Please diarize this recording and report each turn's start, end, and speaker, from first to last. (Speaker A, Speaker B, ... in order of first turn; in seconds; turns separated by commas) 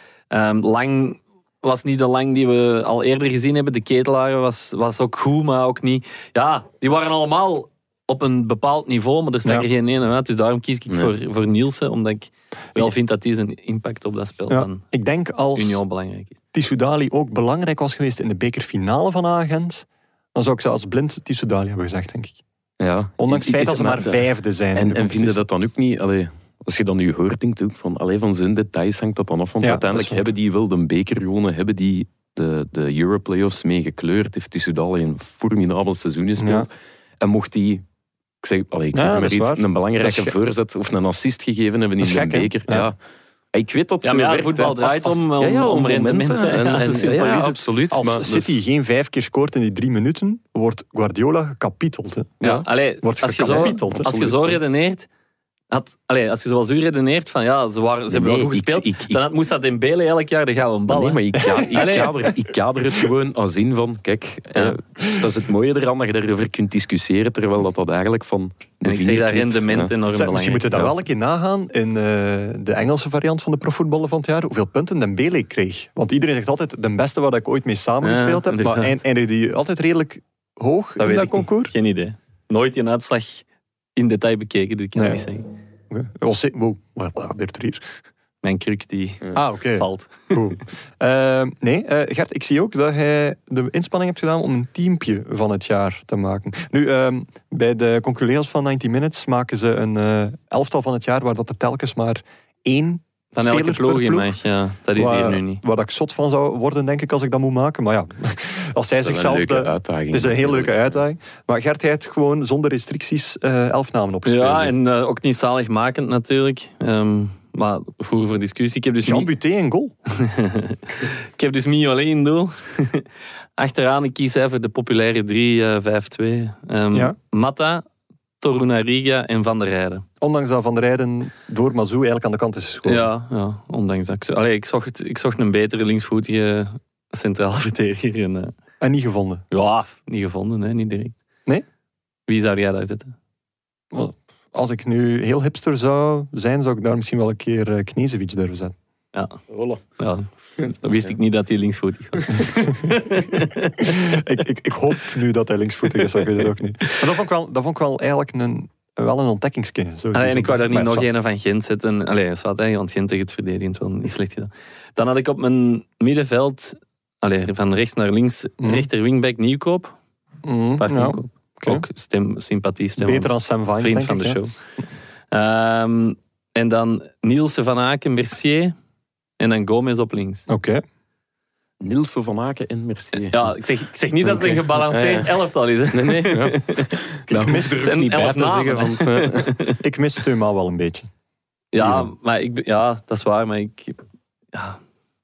Speaker A: 0.3-14.9, Speaker B: 14.5-15.8, Speaker A: 15.5-16.4, Speaker B: 16.5-22.4, Speaker C: 22.8-36.7, Speaker B: 23.2-25.4, Speaker B: 29.6-30.2, Speaker B: 36.4-36.7, Speaker C: 37.2-37.8, Speaker C: 38.4-43.0, Speaker B: 38.9-40.3, Speaker B: 42.0-42.9, Speaker C: 43.5-48.6, Speaker A: 44.0-47.6, Speaker B: 47.9-54.5, Speaker A: 52.4-55.1, Speaker A: 55.7-62.2, Speaker C: 58.1-59.2, Speaker C: 60.9-69.9, Speaker B: 65.0-65.2, Speaker A: 68.8-70.8, Speaker B: 70.1-81.7, Speaker A: 78.0-79.0, Speaker A: 81.0-83.4, Speaker A: 84.0-85.5, Speaker B: 84.9-85.2, Speaker B: 85.9-87.8, Speaker A: 88.4-90.5, Speaker B: 89.3-104.3, Speaker A: 103.3-105.6, Speaker B: 104.9-114.7, Speaker C: 109.0-111.0, Speaker A: 114.2-119.3, Speaker B: 119.0-119.9, Speaker A: 120.2-123.0, Speaker A: 123.6-127.8, Speaker A: 128.4-130.0, Speaker B: 130.2-133.1, Speaker A: 132.8-138.5, Speaker B: 138.8-139.4, Speaker A: 139.5-141.1, Speaker A: 142.3-143.1, Speaker B: 143.9-148.7, Speaker A: 149.1-149.4, Speaker C: 149.5-149.8, Speaker A: 150.0-154.0, Speaker B: 152.9-161.1, Speaker A: 160.1-169.9, Speaker B: 168.6-168.9, Speaker B: 170.4-171.8, Speaker A: 170.8-174.5, Speaker B: 173.0-174.4, Speaker A: 175.3-178.7, Speaker A: 179.4-180.5, Speaker B: 180.5-180.8, Speaker C: 181.8-183.5, Speaker A: 183.2-186.9, Speaker C: 184.2-185.3, Speaker C: 185.9-189.5, Speaker B: 187.3-187.8, Speaker A: 187.8-189.8, Speaker B: 189.8-191.1, Speaker A: 191.7-194.0, Speaker B: 191.8-192.1, Speaker A: 194.5-194.8